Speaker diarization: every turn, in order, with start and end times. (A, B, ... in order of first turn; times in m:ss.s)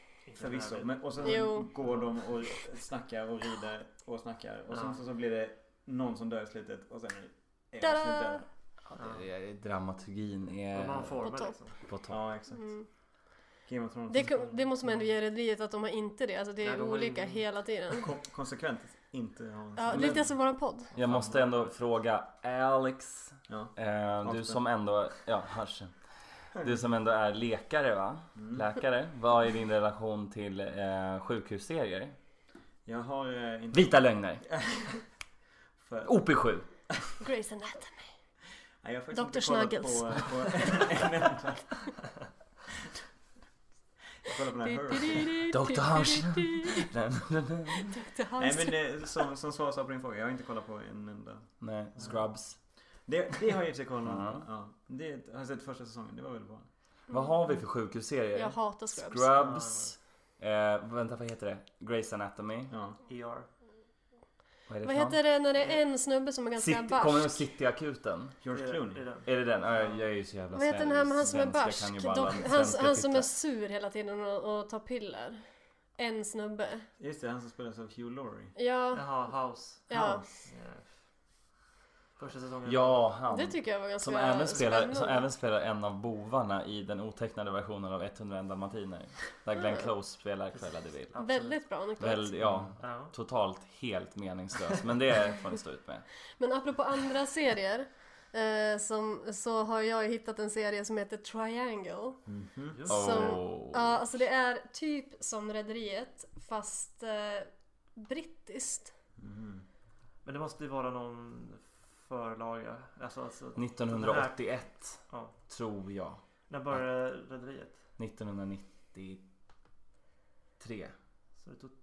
0:00.2-0:01.3 A
0:00.4-0:08.5 B
0:01.2-0:01.7 C
0:04.7-0:05.0 A
0:07.8-0:08.4 C
0:08.9-0:11.2 D
0:09.0-0:09.3 A
0:10.7-0:11.8 A
0:11.2-0:11.6 C
0:11.8-0:12.2 D
0:12.1-0:12.8 B
0:12.5-0:12.9 C
0:13.6-0:14.7 B
0:14.1-0:18.1 C
0:16.6-0:17.4 A
0:17.9-0:20.4 B
0:19.8-0:20.9 C
0:19.9-0:20.4 D
0:20.9-0:21.7 A
0:20.9-0:32.2 D
0:21.1-0:21.4 B
0:23.5-0:24.6 B
0:26.5-0:26.8 B
0:28.4-0:28.7 B
0:32.8-0:35.0 B
0:33.7-0:34.4 D
0:35.8-0:36.4 B
0:36.0-0:36.7 D
0:37.2-0:38.1 C
0:38.8-0:41.8 B
0:39.1-0:40.8 C
0:44.2-0:45.3 B
0:44.6-0:46.9 C
0:45.5-0:48.0 D
0:47.9-0:49.1 C
0:48.4-0:52.2 B
0:51.6-0:52.6 D
0:53.0-0:56.7 B
0:54.0-0:54.4 D
0:57.1-0:57.3 C
0:57.1-1:02.7 D
0:58.3-0:59.3 C
0:59.4-0:59.9 A
1:02.7-1:03.0 B
1:03.0-1:03.5 A
1:04.7-1:05.2 D
1:04.8-1:07.4 C
1:06.6-1:08.4 D
1:08.4-1:09.2 B
1:08.5-1:10.0 A
1:09.2-1:13.3 D
1:10.5-1:15.4 C
1:16.0-1:16.9 C
1:17.0-1:18.5 B
1:18.6-1:20.2 C
1:18.9-1:21.0 A
1:19.9-1:20.2 B
1:22.2-1:23.0 A
1:22.6-1:31.2 D
1:23.3-1:25.2 C
1:29.6-1:29.9 C
1:31.1-1:31.6 A
1:31.2-1:32.4 C
1:32.0-1:36.1 D
1:32.4-1:32.8 B
1:32.8-1:33.1 A
1:36.4-1:42.2 C
1:42.2-1:42.9 B
1:42.7-1:43.3 A
1:42.8-1:48.9 C
1:42.9-1:44.0 D
1:49.2-1:49.6 B
1:50.2-1:55.3 A
1:53.6-1:56.2 D
1:56.5-1:57.9 A
1:58.0-1:59.2 D
2:00.6-2:00.9 D
2:01.4-2:01.7 A